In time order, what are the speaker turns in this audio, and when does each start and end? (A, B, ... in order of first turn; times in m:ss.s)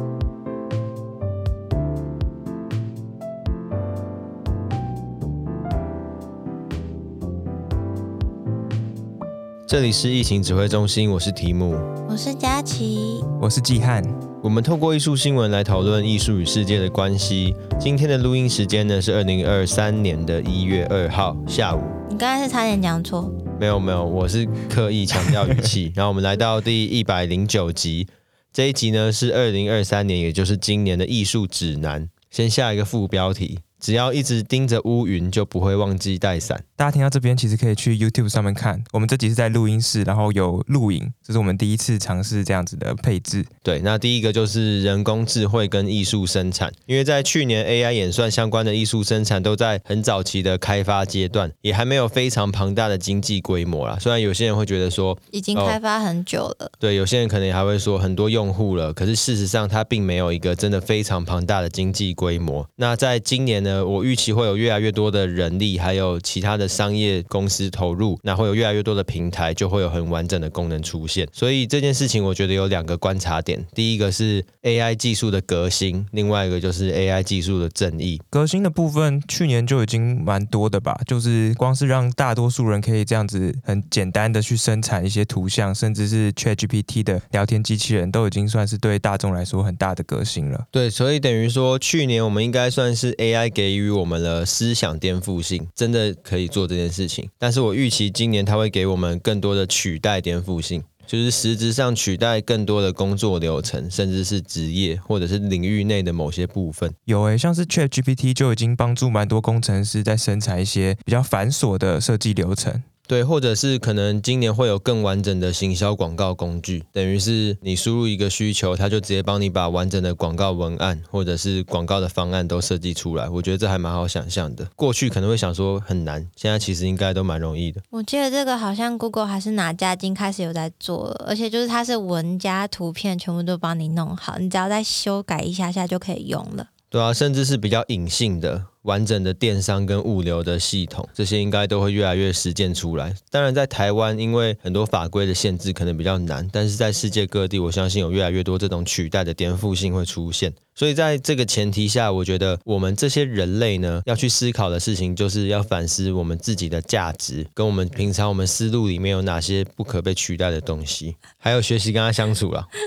0:09.6-0:11.9 A
0:12.1-0:13.3 B
0:13.4-0:14.2 C
0:14.4-0:22.0 A
0:22.1-0:23.4 B
0:23.6-0:36.6 A
0:36.8-0:43.5 C
0:43.6-0:55.8 A
0:55.3-0:56.7 B
0:56.8-1:18.2 A
1:18.3-1:30.6 C
1:30.7-1:46.9 A
1:47.1-1:52.8 C
1:53.1-2:07.8 A
2:07.9-2:16.7 B
2:16.9-2:42.7 A